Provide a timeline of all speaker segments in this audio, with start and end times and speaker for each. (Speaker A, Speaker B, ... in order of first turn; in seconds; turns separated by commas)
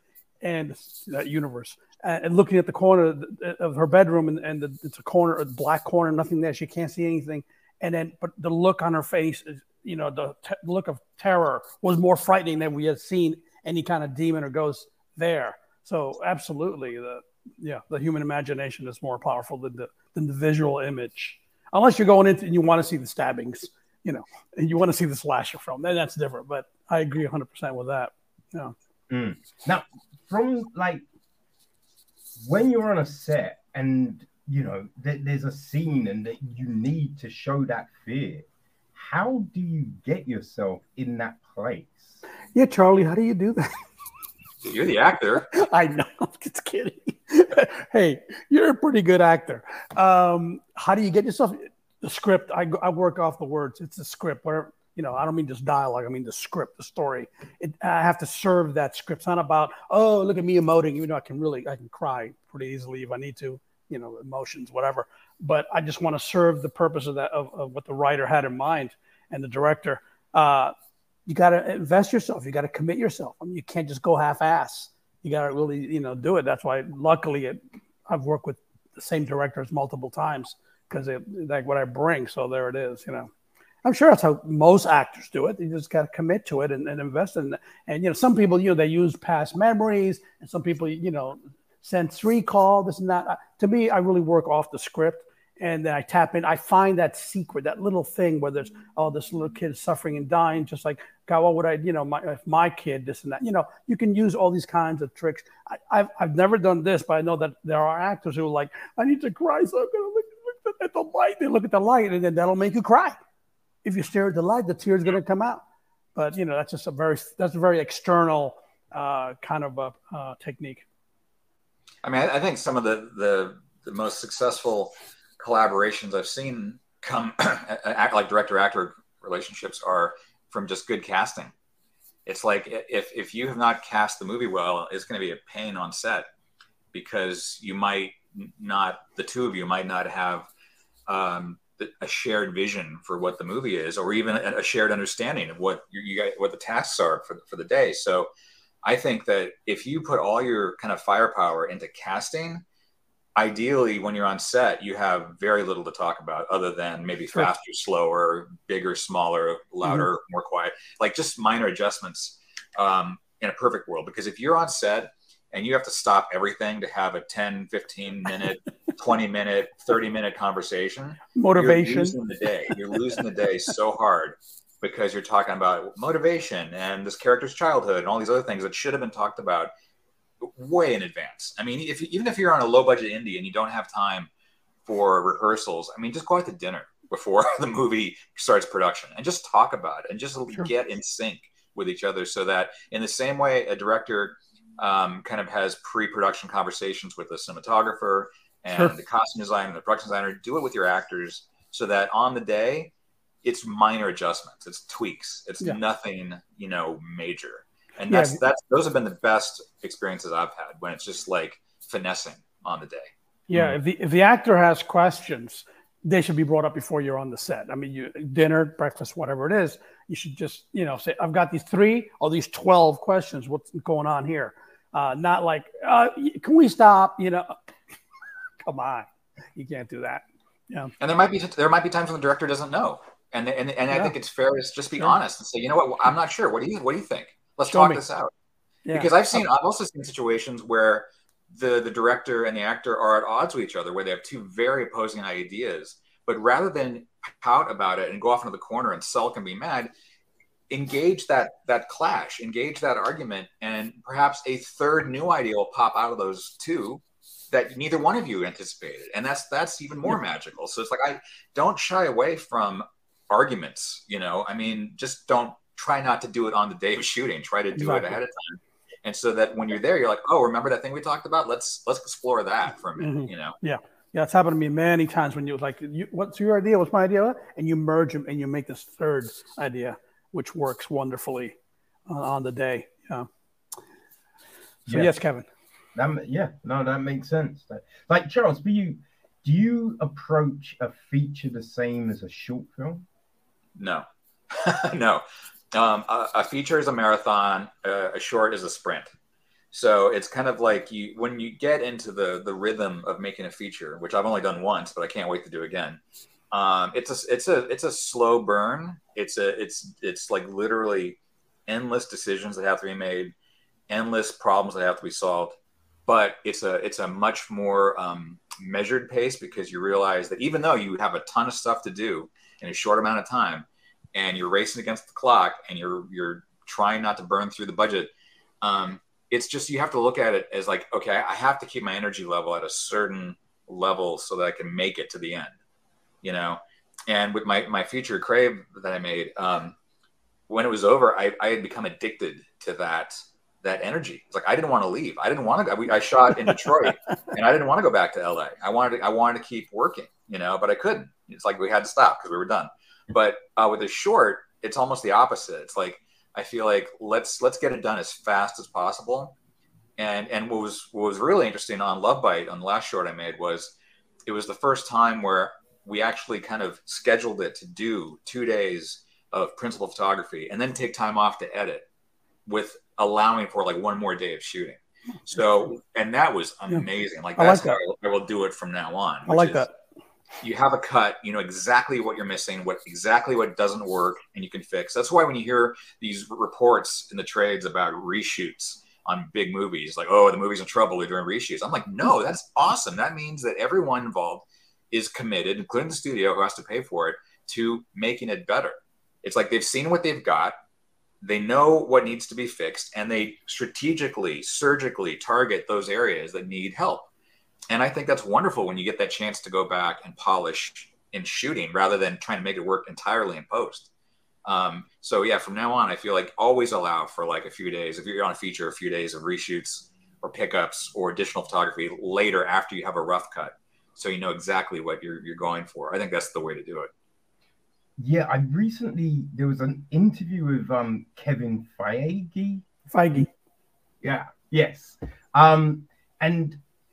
Speaker A: 0.4-28.7, Speaker B: 29.1-31.0, Speaker B: 32.4-42.2, Speaker A: 42.5-43.7, Speaker C: 44.7-45.6, Speaker A: 45.5-70.7, Speaker A: 71.3-83.3, Speaker A: 83.8-113.2, Speaker A: 113.8-115.6, Speaker A: 116.2-120.8, Speaker C: 122.0-131.5, Speaker C: 132.3-136.3, Speaker C: 136.9-140.5, Speaker C: 141.1-148.3, Speaker C: 148.8-152.6, Speaker C: 153.4-179.7, Speaker A: 171.4-172.2, Speaker C: 180.4-184.3, Speaker C: 184.9-202.9, Speaker C: 203.4-213.7, Speaker A: 208.1-208.4, Speaker A: 213.5-227.6, Speaker A: 228.7-230.9, Speaker C: 231.0-238.3, Speaker A: 237.7-238.0, Speaker A: 238.9-239.4, Speaker C: 238.9-249.9, Speaker C: 250.7-273.6, Speaker A: 267.8-268.2, Speaker A: 273.0-281.5, Speaker A: 282.1-283.3, Speaker B: 284.9-285.1, Speaker A: 284.9-285.4, Speaker B: 286.0-293.1, Speaker C: 293.8-299.1, Speaker C: 299.7-306.0, Speaker C: 306.5-313.3, Speaker C: 313.9-315.6, Speaker C: 316.1-328.1, Speaker C: 328.6-335.5, Speaker C: 336.2-339.8, Speaker C: 340.5-359.4, Speaker C: 360.0-363.7, Speaker C: 364.3-371.9, Speaker C: 372.5-379.7, Speaker A: 377.4-377.8, Speaker A: 379.3-379.7, Speaker C: 380.4-400.6, Speaker C: 401.2-407.1, Speaker C: 407.7-413.9, Speaker C: 414.4-426.9, Speaker B: 428.0-432.6, Speaker A: 432.9-433.3, Speaker B: 434.0-436.6